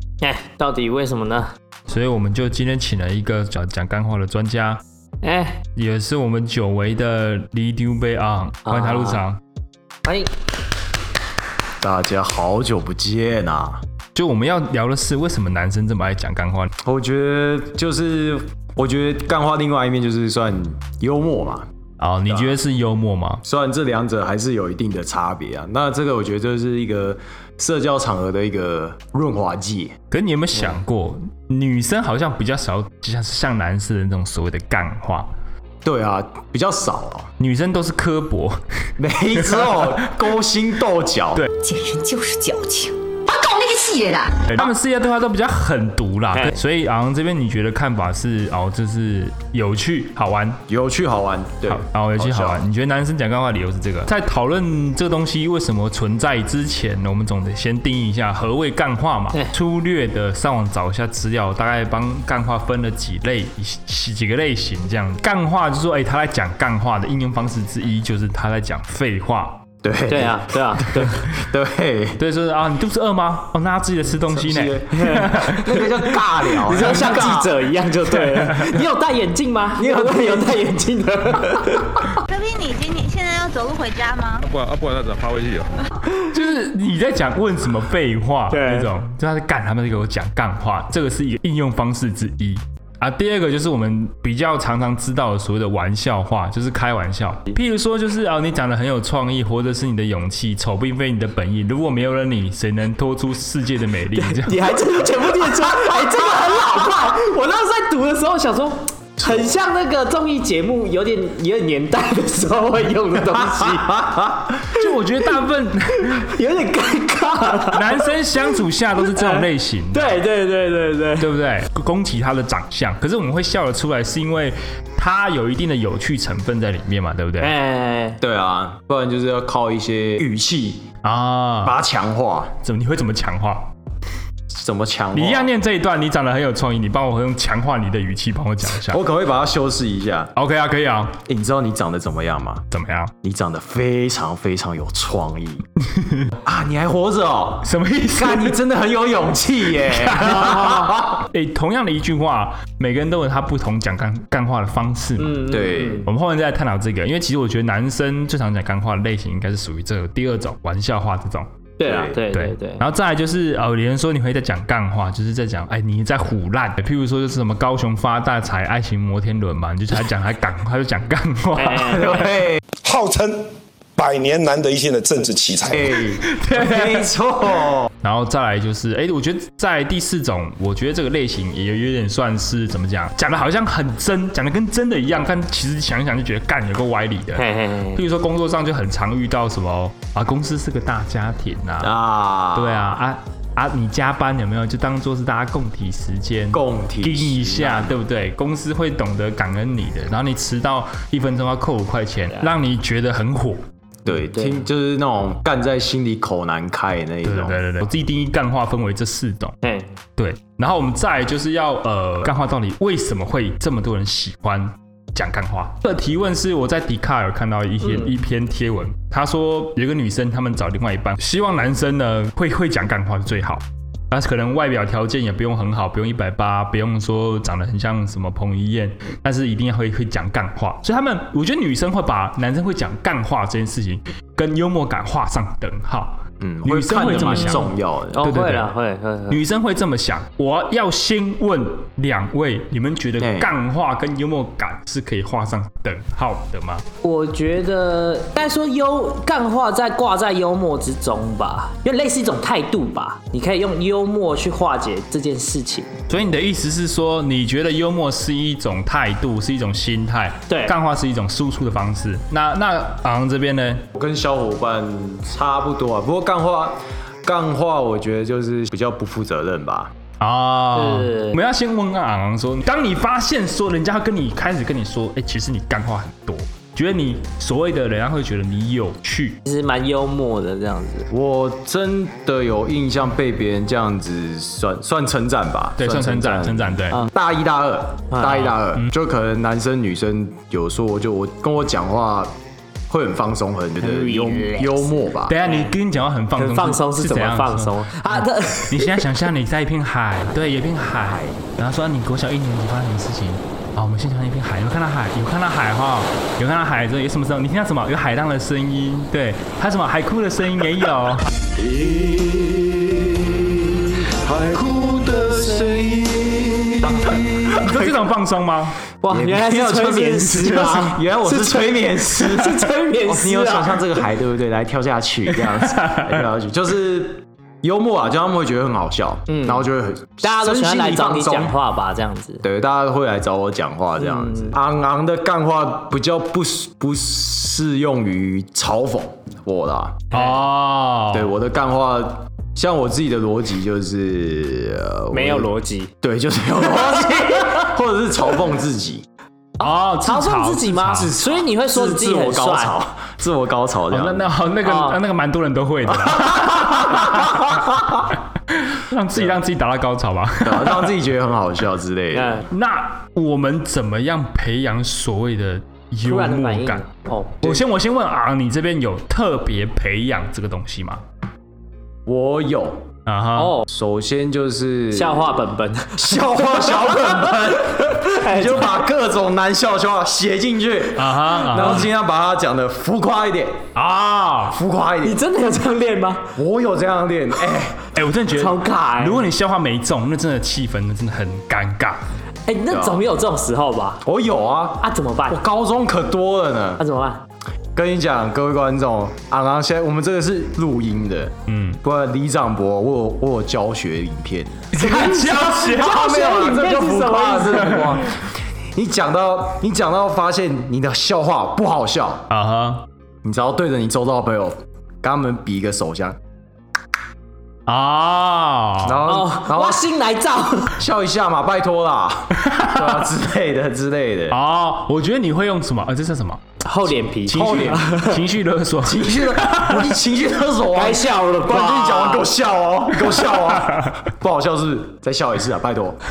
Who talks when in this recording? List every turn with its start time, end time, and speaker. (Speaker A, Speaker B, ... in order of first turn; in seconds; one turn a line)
Speaker A: 0.2-1.5
Speaker B: 1.9-4.8
Speaker A: 5.2-5.6
Speaker B: 5.8-9.4
Speaker A: 8.7-9.2
Speaker A: 10.0-10.3
Speaker C: 11.8-13.8
Speaker B: 14.1-16.7
Speaker C: 16.8-21.7
Speaker B: 22.0-23.4
Speaker C: 22.3-22.6
Speaker C: 23.4-30.0
Speaker B: 30.1-35.3
Speaker C: 35.8-37.3
Speaker B: 37.4-38.6
Speaker C: 39.0-41.4
Speaker D: 41.6-44.4
Speaker B: 44.5-50.6
Speaker C: 50.7-52.6
Speaker B: 51.7-69.6
Speaker C: 69.8-72.2
Speaker A: 70.1-71.2
Speaker B: 72.2-75.7
Speaker C: 74.2-77.5
Speaker A: 75.0-75.4
Speaker A: 76.5-82.0
Speaker B: 78.4-78.7
Speaker C: 79.8-80.6
Speaker E: 82.3-84.5
Speaker F: 84.4-85.7
Speaker B: 86.3-104.6
Speaker A: 88.5-88.9
Speaker A: 104.2-114.1
Speaker C: 113.6-114.7
Speaker B: 114.7-116.3
Speaker A: 116.1-118.1
Speaker B: 117.7-120.2
Speaker A: 119.0-121.3
Speaker B: 121.2-127.5
Speaker A: 127.4-128.2
Speaker C: 128.2-130.9
Speaker B: 131.0-131.8
Speaker C: 131.6-132.5
Speaker B: 132.6-133.7
Speaker C: 134.5-135.5
Speaker B: 135.1-139.0
Speaker C: 138.9-140.3
Speaker B: 140.3-141.2
Speaker C: 141.2-142.6
Speaker B: 142.7-143.1
Speaker C: 143.2-145.6
Speaker B: 145.9-146.3
Speaker C: 146.4-151.2
Speaker B: 147.6-148.6
Speaker B: 149.9-155.5
Speaker A: 155.2-156.1
Speaker C: 155.5-156.1
Speaker B: 156.0-161.5
Speaker A: 161.8-162.8
Speaker C: 161.8-162.2
Speaker B: 162.3-172.2
Speaker A: 171.6-172.2
Speaker C: 171.8-172.6
Speaker G: 172.8-176.0
Speaker C: 175.7-177.9
Speaker B: 176.2-177.1
Speaker B: 178.0-191.9
Speaker A: 187.4-188.0
Speaker C: 191.8-193.0
Speaker B: 192.5-203.6
Speaker C: 196.5-197.9
Speaker C: 204.0-207.6
Speaker A: 204.2-204.6
Speaker B: 207.2-209.5
Speaker A: 209.6-209.9
Speaker B: 210.2-237.7
Speaker A: 217.8-218.1
Speaker C: 236.4-238.2
Speaker A: 237.1-239.4
Speaker B: 238.2-238.7
Speaker B: 239.3-246.8
Speaker C: 243.2-243.5
Speaker A: 247.0-255.9
Speaker B: 256.1-263.9
Speaker A: 260.5-260.7
Speaker C: 263.9-269.9
Speaker B: 270.2-279.4
Speaker A: 270.8-271.4
Speaker A: 279.4-281.1
Speaker C: 281.1-292.3
Speaker B: 285.8-287.0
Speaker A: 288.1-288.5
Speaker C: 292.9-295.4
Speaker A: 293.8-294.9
Speaker B: 295.3-311.3
Speaker A: 295.4-295.7
Speaker A: 296.4-299.0
Speaker F: 311.6-312.7
Speaker F: 314.3-316.6
Speaker C: 314.6-316.0
Speaker C: 316.8-317.8
Speaker B: 317.5-318.8
Speaker A: 319.0-323.9
Speaker C: 319.1-331.6
Speaker B: 325.6-326.2
Speaker A: 329.3-329.7
Speaker A: 330.2-332.4
Speaker C: 332.4-340.2
Speaker A: 334.0-334.6
Speaker B: 340.1-341.3
Speaker C: 341.1-349.0
Speaker A: 345.1-345.9
Speaker B: 349.6-351.1
Speaker A: 349.6-352.7
Speaker C: 351.0-354.3
Speaker B: 353.9-357.6
Speaker A: 354.6-355.0
Speaker C: 356.1-357.2
Speaker B: 358.5-360.9
Speaker C: 360.4-362.4
Speaker A: 362.1-362.4
Speaker B: 362.5-366.8
Speaker A: 366.0-367.5
Speaker B: 367.4-371.0
Speaker C: 372.1-372.9
Speaker B: 373.1-373.6
Speaker A: 373.4-373.7
Speaker C: 373.7-375.4
Speaker A: 374.9-378.8
Speaker C: 375.9-383.6
Speaker B: 380.9-381.8
Speaker B: 383.7-384.6
Speaker C: 384.5-385.2
Speaker A: 385.0-386.3
Speaker C: 386.4-387.8
Speaker B: 387.9-392.0
Speaker A: 388.3-389.3
Speaker A: 392.5-394.0
Speaker C: 392.7-393.0
Speaker C: 394.0-396.8
Speaker A: 394.8-395.4
Speaker A: 396.8-397.2
Speaker C: 397.7-412.2
Speaker B: 401.5-401.8
Speaker B: 404.7-405.9
Speaker A: 404.9-408.0
Speaker B: 412.3-412.8
Speaker C: 413.2-416.2
Speaker B: 417.7-419.0
Speaker C: 418.8-419.8
Speaker A: 419.1-420.7
Speaker C: 420.8-424.4
Speaker B: 422.4-422.9
Speaker B: 424.3-426.4
Speaker A: 426.6-428.2
Speaker C: 427.3-427.8
Speaker B: 427.3-429.8
Speaker C: 428.8-436.0
Speaker A: 430.7-432.3